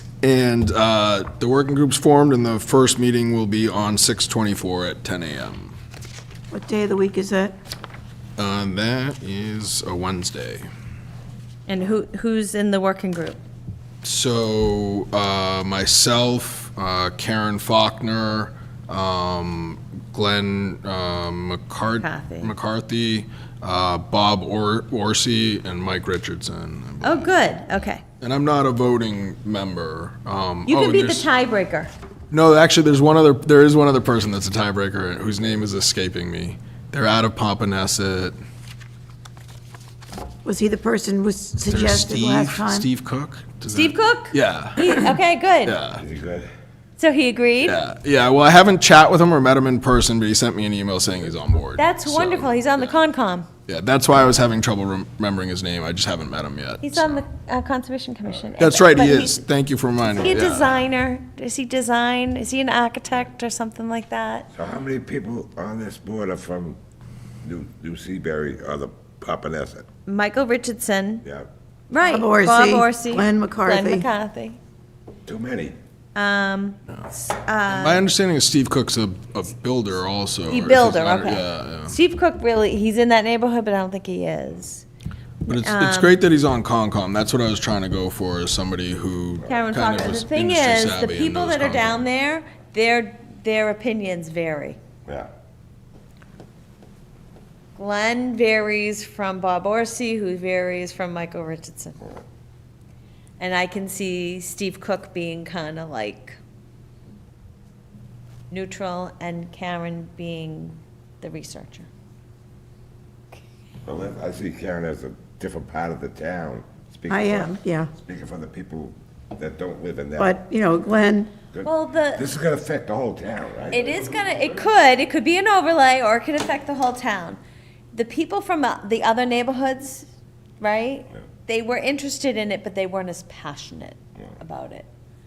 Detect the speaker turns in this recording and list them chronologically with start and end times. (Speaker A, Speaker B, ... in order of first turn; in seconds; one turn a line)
Speaker A: 0.2-5.8
Speaker B: 6.5-7.5
Speaker A: 8.4-10.7
Speaker C: 11.7-13.4
Speaker A: 14.0-31.3
Speaker C: 22.0-22.5
Speaker C: 27.0-28.0
Speaker C: 30.7-31.9
Speaker A: 32.3-38.4
Speaker B: 40.5-42.9
Speaker A: 41.7-45.0
Speaker C: 43.7-45.8
Speaker A: 45.6-46.0
Speaker D: 46.0-46.5
Speaker C: 47.0-47.8
Speaker A: 47.6-52.5
Speaker C: 51.8-53.5
Speaker A: 53.7-57.2
Speaker C: 56.8-59.4
Speaker A: 58.6-60.8
Speaker C: 60.0-64.5
Speaker D: 64.5-66.8
Speaker D: 67.4-69.9
Speaker C: 70.1-71.2
Speaker C: 71.9-74.6
Speaker B: 72.0-74.1
Speaker D: 75.3-75.8
Speaker C: 76.2-78.1
Speaker A: 77.7-82.0
Speaker C: 80.5-84.8
Speaker A: 85.5-92.1
Speaker C: 85.5-86.2
Speaker C: 89.5-94.8
Speaker C: 97.8-102.0
Speaker C: 103.4-106.4
Speaker C: 108.5-111.9
Speaker D: 113.8-120.3
Speaker B: 117.1-117.9
Speaker B: 120.2-121.3
Speaker D: 121.5-124.6
Speaker C: 121.6-122.3
Speaker C: 123.7-127.4
Speaker C: 127.9-130.1
Speaker C: 130.6-134.9